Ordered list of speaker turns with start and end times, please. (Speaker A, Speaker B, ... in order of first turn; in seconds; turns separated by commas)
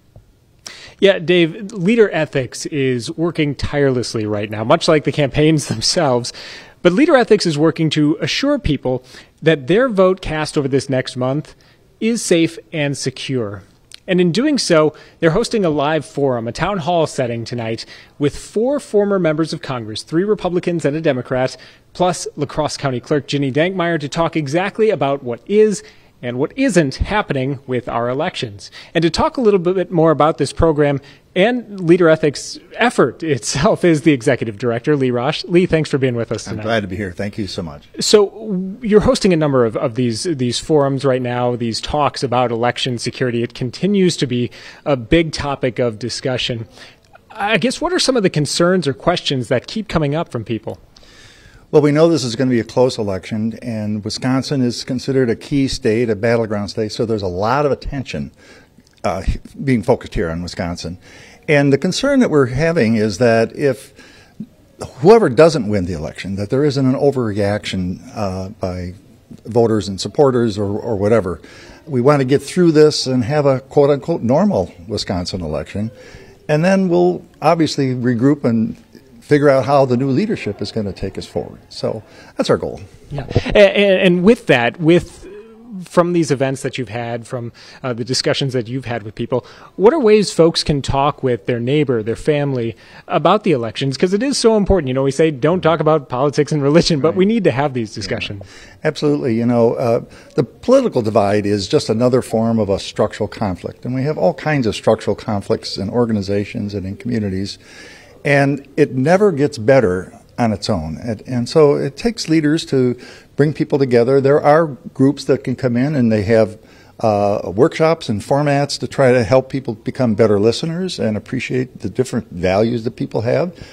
Speaker A: 1.0-36.7, Speaker B: 36.4-37.9, Speaker A: 38.0-46.6, Speaker A: 47.3-50.8, Speaker B: 51.7-58.3, Speaker B: 59.0-64.0, Speaker B: 64.8-75.9, Speaker B: 76.5-82.8, Speaker A: 83.1-98.4, Speaker B: 98.8-107.6, Speaker B: 108.2-123.5